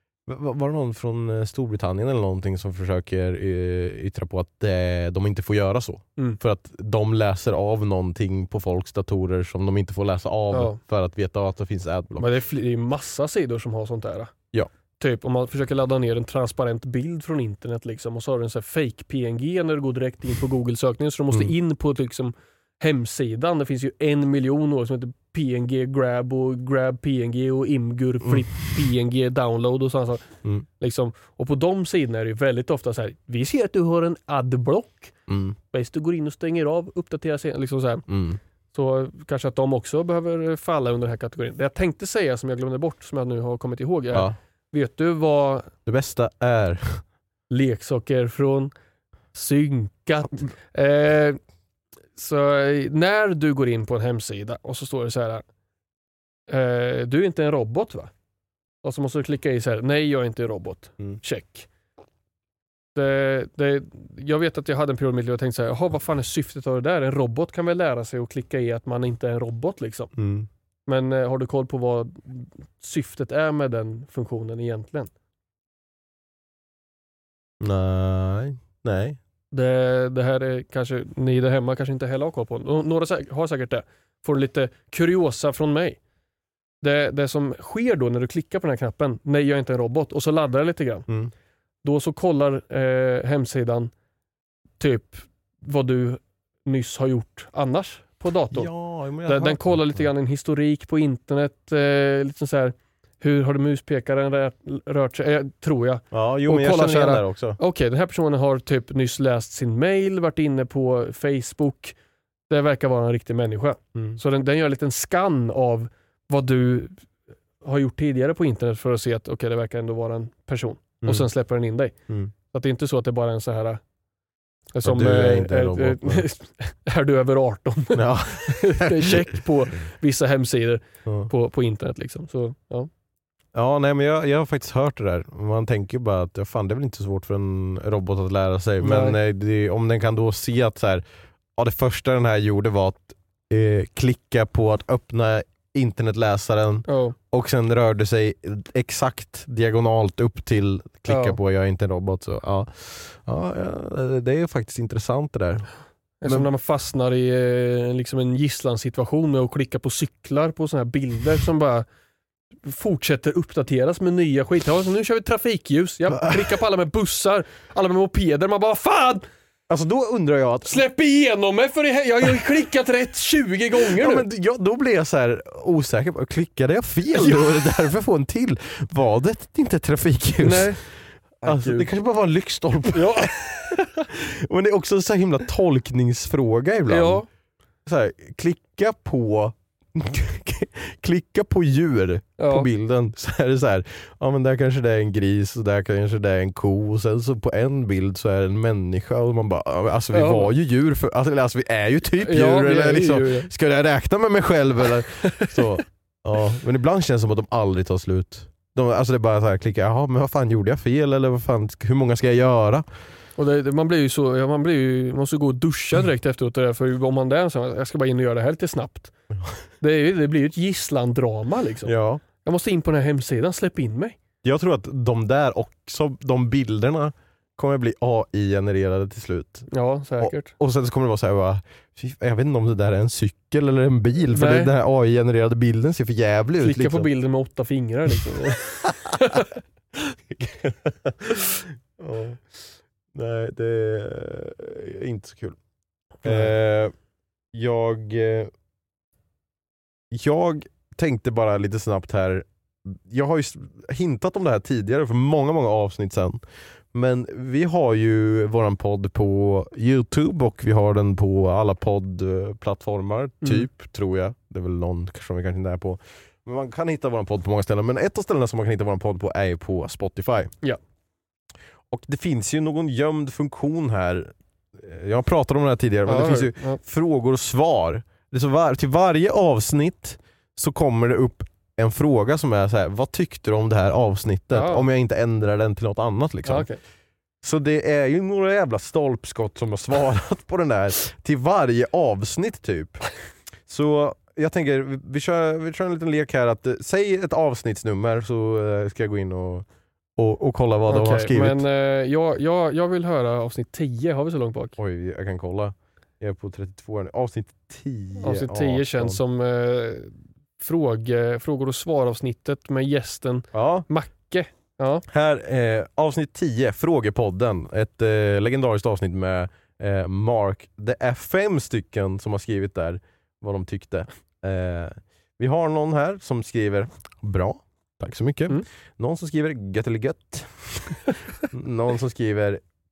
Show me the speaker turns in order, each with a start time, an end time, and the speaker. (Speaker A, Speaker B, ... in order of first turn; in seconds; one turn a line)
Speaker A: 0.3-12.3
Speaker B: 10.5-10.8
Speaker B: 12.2-14.3
Speaker B: 15.0-30.2
Speaker A: 28.2-28.5
Speaker B: 30.8-35.1
Speaker A: 35.3-35.6
Speaker B: 35.7-38.1
Speaker A: 38.1-38.4
Speaker B: 38.7-45.7
Speaker A: 45.9-47.0
Speaker B: 47.5-48.7
Speaker B: 49.3-51.4
Speaker B: 52.2-55.5
Speaker B: 56.5-58.1
Speaker B: 58.8-61.7
Speaker B: 63.0-70.1
Speaker A: 70.2-70.5
Speaker B: 70.9-75.1
Speaker A: 77.6-79.2
Speaker B: 79.5-86.0
Speaker B: 86.8-91.1
Speaker B: 91.8-93.9
Speaker B: 94.8-98.7
Speaker A: 98.5-100.0
Speaker B: 99.3-112.0
Speaker A: 106.1-107.6
Speaker B: 112.5-117.0
Speaker A: 113.9-114.2
Speaker B: 117.6-121.9
Speaker A: 121.0-121.3
Speaker A: 122.1-122.3
Speaker B: 122.5-123.8
Speaker B: 124.7-132.9
Speaker A: 124.8-126.3
Speaker A: 127.9-129.3
Speaker A: 131.1-131.3
Speaker A: 133.5-141.0
Speaker B: 138.8-139.2
Speaker A: 141.6-155.7
Speaker B: 146.9-147.2
Speaker B: 151.1-151.4
Speaker B: 156.2-161.9
Speaker A: 156.2-156.5
Speaker B: 162.7-169.3
Speaker A: 169.7-170.8
Speaker B: 170.7-174.2
Speaker A: 174.0-187.2
Speaker B: 177.1-177.6
Speaker B: 180.4-180.8
Speaker B: 181.4-181.9
Speaker B: 182.9-183.9
Speaker B: 186.9-187.3
Speaker A: 187.9-212.9
Speaker B: 192.4-192.7
Speaker B: 200.1-200.5
Speaker B: 202.2-203.5
Speaker B: 213.4-219.1
Speaker B: 219.8-221.9
Speaker A: 221.9-222.2
Speaker B: 222.4-224.2
Speaker A: 224.4-237.1
Speaker B: 229.7-230.5
Speaker B: 234.3-234.7
Speaker B: 236.6-239.5
Speaker A: 240.3-242.5
Speaker A: 243.1-245.6
Speaker A: 246.2-246.9
Speaker B: 246.2-246.5
Speaker A: 247.5-248.5
Speaker A: 250.1-270.5
Speaker A: 271.9-286.7
Speaker B: 276.1-276.8
Speaker B: 284.5-284.9
Speaker B: 286.5-286.8
Speaker A: 287.4-293.1
Speaker A: 293.7-299.7
Speaker A: 300.2-301.7
Speaker B: 300.9-304.8
Speaker A: 304.8-309.2
Speaker B: 308.2-315.0
Speaker A: 313.5-313.9
Speaker A: 315.1-332.6